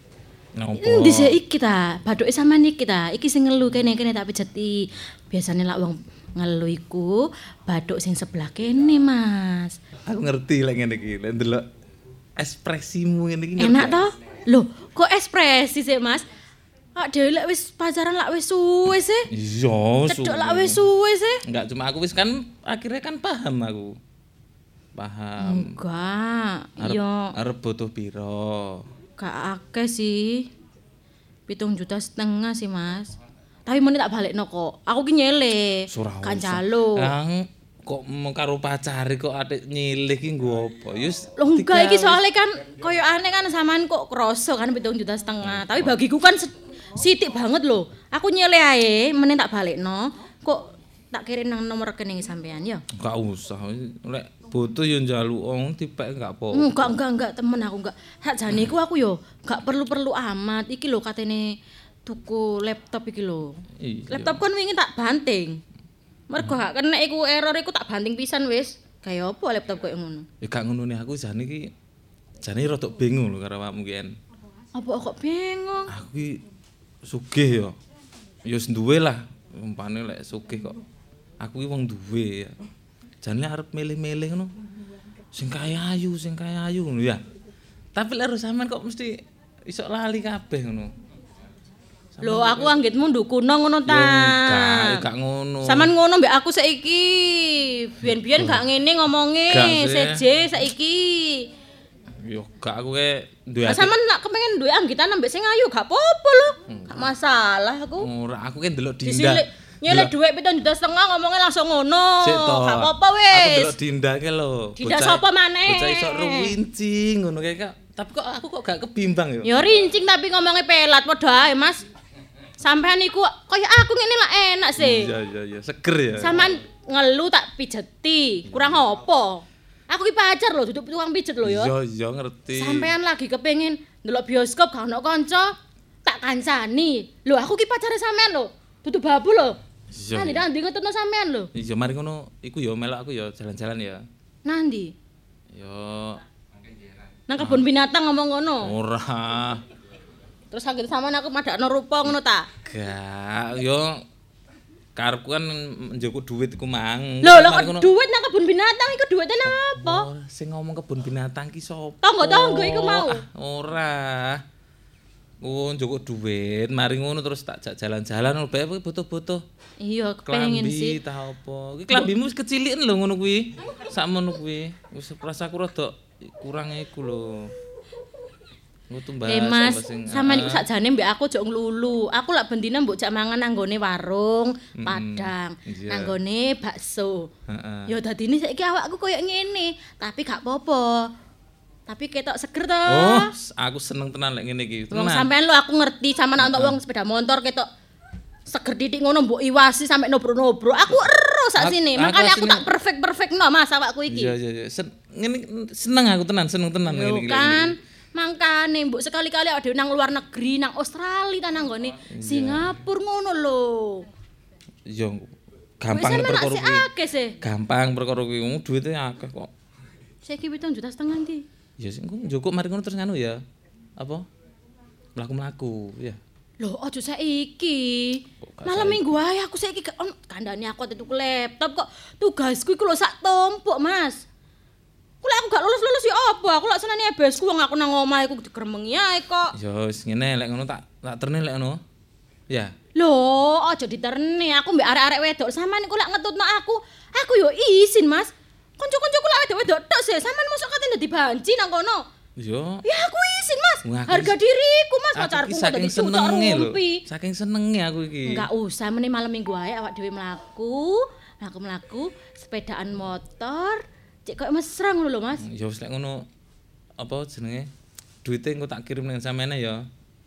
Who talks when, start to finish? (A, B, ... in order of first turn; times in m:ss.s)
0:00.6-0:01.4 A
0:00.8-0:09.8 B
0:10.1-0:11.6 A
0:12.4-0:14.0 A
0:13.6-0:16.3 B
0:17.0-0:19.3 B
0:19.3-0:20.8 A
0:20.1-0:21.4 B
0:21.5-0:24.0 A
0:25.0-0:25.7 A
0:25.4-0:27.3 B
0:26.8-0:28.8 A
0:29.2-0:30.5 B
0:31.5-0:33.2 B
0:33.7-0:37.1 B
0:35.9-0:42.2 A
0:41.4-0:52.8 B
0:45.4-0:46.0 A
0:53.0-0:56.8 A
0:56.5-1:01.6 B
1:02.1-1:03.6 B
1:03.8-1:04.4 A
1:04.1-1:05.6 B
1:06.3-1:10.2 B
1:10.4-1:11.7 A
1:12.4-1:14.1 A
1:14.8-1:15.9 B
1:15.9-1:16.4 A
1:17.1-1:17.8 A
1:18.5-1:20.8 A
1:21.4-1:22.5 A
1:23.2-1:24.5 A
1:25.3-1:27.2 A
1:28.0-1:30.9 A
1:32.2-1:32.8 A
1:32.2-1:35.0 B
1:33.9-1:35.9 A
1:35.6-1:41.5 B
1:38.1-1:38.6 A
1:39.5-1:40.2 A
1:42.2-1:43.9 A
1:43.7-1:48.1 B
1:46.7-1:47.1 A
1:48.0-1:50.1 A
1:49.0-1:53.8 B
1:52.2-1:59.6 A
1:54.8-1:56.5 B
1:59.4-2:01.8 B
2:02.6-2:05.1 B
2:04.8-2:06.5 A
2:06.2-2:11.7 B
2:11.4-2:12.9 A
2:12.5-2:15.5 B
2:16.1-2:19.6 B
2:19.9-2:20.4 A
2:20.2-2:21.5 B
2:21.6-2:24.0 A
2:24.5-2:24.9 B
2:25.6-2:26.2 A
2:27.3-2:28.7 B
2:27.4-2:27.6 A
2:28.6-2:29.6 A
2:30.5-2:32.5 B
2:32.7-2:34.0 A
2:35.0-2:37.9 A
2:37.2-2:40.1 B
2:39.5-2:44.4 A
2:42.0-2:43.2 B
2:45.4-2:49.4 A
2:49.8-2:51.0 B
2:50.3-2:57.5 A
2:58.9-3:00.6 A
2:59.2-3:07.3 B
3:04.8-3:06.1 A
3:07.5-3:07.9 A
3:07.9-3:11.1 B
3:11.9-3:13.3 B
3:12.9-3:15.3 A
3:14.9-3:17.7 B
3:16.4-3:16.8 A
3:18.5-3:24.3 B
3:21.6-3:22.6 A
3:24.1-3:27.7 A
3:26.9-3:34.1 B
3:32.2-3:32.7 A
3:34.9-3:36.8 A
3:35.9-3:37.4 B
3:37.4-3:39.5 A
3:40.2-3:41.4 B
3:41.8-3:43.4 A
3:44.0-3:44.3 A
3:45.2-3:46.2 A
3:46.6-3:54.2 B
3:48.4-3:49.1 A
3:55.2-3:59.5 B
3:59.6-4:01.8 A
4:03.0-4:12.0 B
4:12.4-4:12.8 A
4:12.8-4:17.0 B
4:13.8-4:14.4 A
4:15.2-4:18.5 A
4:18.3-4:25.4 B
4:25.4-4:26.2 A
4:27.0-4:27.7 A
4:28.2-4:29.8 A